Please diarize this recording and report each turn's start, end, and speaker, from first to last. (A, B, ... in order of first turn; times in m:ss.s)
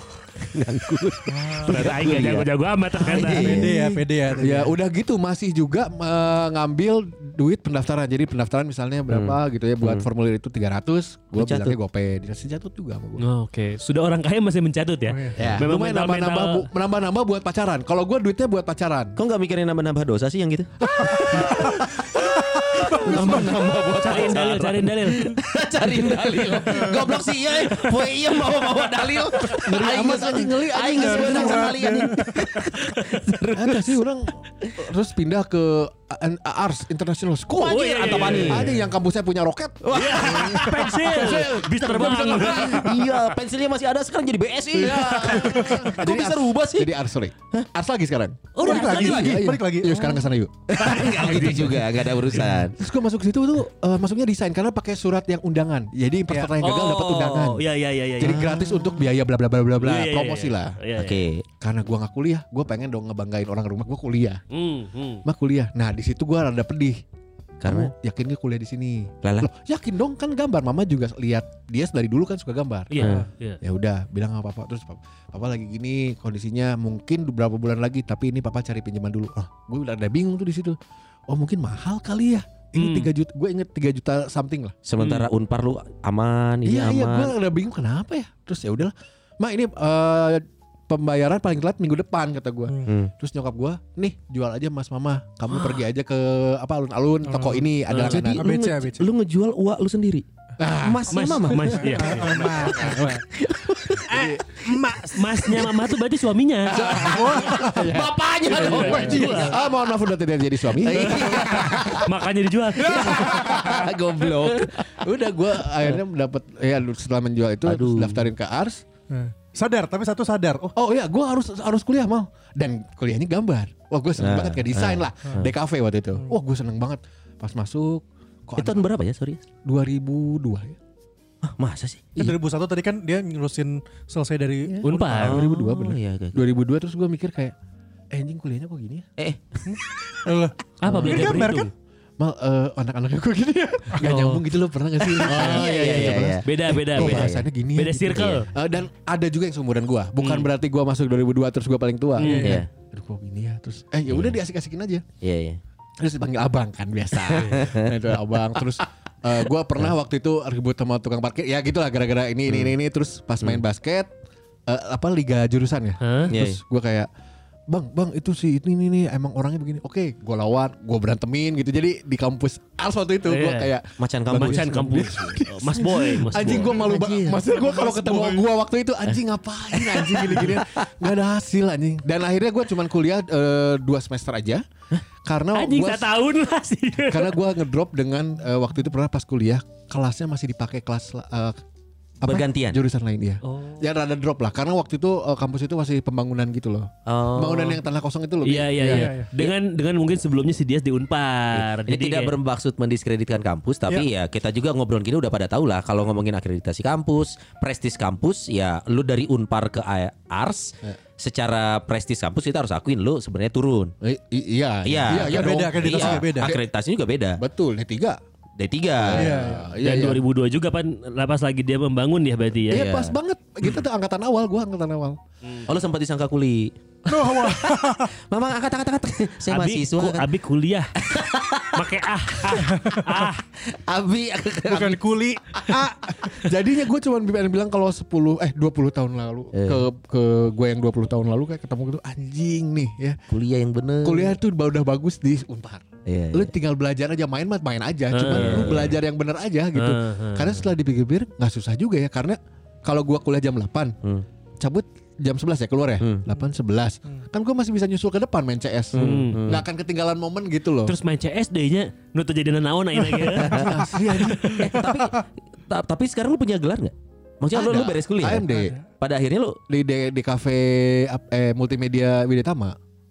0:00.3-0:03.7 A
0:01.3-0:01.8 B
0:01.6-0:03.6 C
0:03.2-0:04.8 B
0:03.2-0:13.2 D
0:09.1-0:10.1 A
0:11.3-0:11.8 A
0:13.2-0:16.6 C
0:15.1-0:15.5 B
0:15.3-0:19.2 D
0:19.2-0:34.0 A
0:20.9-0:21.8 D
0:22.7-0:23.7 D
0:22.9-0:23.4 B
0:24.0-0:25.4 C
0:25.9-0:27.0 D
0:29.4-0:32.1 D
0:29.5-0:32.5 B
0:32.8-0:33.1 C
0:33.5-0:43.0 D
0:37.5-0:38.8 A
0:37.6-0:38.7 C
0:38.5-0:38.9 B
0:39.8-0:47.0 A
0:39.9-0:43.3 C
0:44.7-0:51.7 D
0:45.4-0:45.9 B
0:48.5-0:49.4 C
0:48.6-0:50.2 B
0:48.6-0:49.4 A
0:50.7-0:52.8 A
0:50.8-0:51.9 C
0:52.3-0:57.6 D
0:56.4-0:58.5 C
0:56.6-0:57.6 A
0:58.2-1:00.8 D
0:58.2-0:58.5 A
0:59.8-1:01.2 C
1:01.0-1:01.4 A
1:01.6-1:04.4 D
1:04.5-1:05.2 C
1:05.2-1:07.0 D
1:07.6-1:07.9 A
1:07.6-1:20.8 D
1:09.2-1:09.5 A
1:12.9-1:13.6 C
1:13.0-1:13.3 A
1:21.3-1:24.7 D
1:22.8-1:23.1 C
1:24.8-1:27.3 A
1:25.0-1:25.3 C
1:26.6-1:38.5 D
1:32.8-1:33.1 A
1:37.2-1:37.7 B
1:37.9-1:44.9 A
1:37.9-1:38.2 C
1:38.3-1:39.1 B
1:40.6-1:41.7 D
1:41.1-1:42.9 C
1:41.8-1:43.2 B
1:42.3-1:42.8 D
1:44.1-1:45.7 B
1:44.1-1:44.4 D
1:45.1-1:46.7 C
1:46.7-1:52.1 D
1:46.7-1:49.6 A
1:46.7-1:49.6 B
1:48.5-1:49.6 C
1:50.7-1:52.1 A
1:51.2-1:53.8 C
1:52.7-1:56.0 A
1:52.8-1:58.8 D
1:57.6-1:58.3 A
1:59.1-2:00.7 B
2:00.7-2:08.8 D
2:04.2-2:05.5 A
2:08.6-2:09.4 A
2:09.6-2:10.8 D
2:11.4-2:12.4 A
2:12.2-2:15.1 B
2:14.7-2:17.5 D
2:14.8-2:15.5 C
2:15.1-2:16.4 A
2:18.1-2:19.1 D
2:19.2-2:19.6 A
2:19.7-2:21.7 B
2:20.8-2:21.7 C
2:20.8-2:21.5 D
2:21.0-2:21.4 A
2:22.2-2:35.0 D
2:24.0-2:24.4 C
2:25.0-2:28.5 C
2:25.2-2:27.5 A
2:28.0-2:28.4 A
2:30.2-2:30.5 C
2:32.2-2:32.6 C
2:32.2-2:32.6 B
2:32.4-2:32.7 A
2:34.1-2:34.4 A
2:35.2-2:35.6 A
2:36.0-2:44.1 D
2:37.1-2:38.2 A
2:42.5-2:42.8 A
2:44.7-2:47.1 D
2:46.0-2:46.3 C
2:46.3-2:46.6 A
2:47.7-3:04.6 D
2:53.2-2:53.7 C
2:54.0-2:55.1 A
2:54.3-2:57.4 C
2:56.3-2:56.9 A
2:57.0-2:58.4 B
2:59.7-3:00.8 A
3:05.2-3:06.1 D
3:05.5-3:07.4 C
3:07.0-3:11.6 D
3:12.2-3:19.1 D
3:12.2-3:12.8 A
3:13.4-3:13.8 C
3:17.0-3:17.8 A
3:18.4-3:22.3 C
3:18.8-3:19.3 B
3:21.5-3:33.9 A
3:34.0-3:36.6 D
3:34.8-3:37.4 A
3:35.1-3:36.5 B
3:37.4-3:38.2 D
3:38.6-3:39.4 A
3:39.0-3:40.2 D
3:39.1-3:39.7 B
3:39.8-3:43.1 C
3:42.7-3:45.2 D
3:42.7-3:43.2 A
3:45.4-3:45.7 C
3:45.7-3:50.3 A
3:47.1-3:48.1 B
3:49.5-3:50.9 C
3:51.0-3:52.7 A
3:51.7-3:53.4 C
3:52.7-3:53.0 B
3:53.6-3:55.9 A
3:54.7-3:56.2 B
3:56.2-4:03.2 D
3:59.5-3:59.9 A
4:03.3-4:04.4 A
4:04.0-4:14.0 D
4:06.0-4:06.5 A
4:08.1-4:08.9 C
4:08.1-4:09.0 A
4:09.7-4:10.6 C
4:14.6-4:20.9 D
4:16.0-4:16.3 A
4:18.9-4:19.6 A
4:18.9-4:19.4 C
4:20.8-4:23.6 C
4:23.4-4:23.8 A
4:23.4-4:24.9 D
4:24.5-4:29.6 A
4:24.8-4:25.1 B
4:27.5-4:28.8 D
4:29.7-4:32.8 D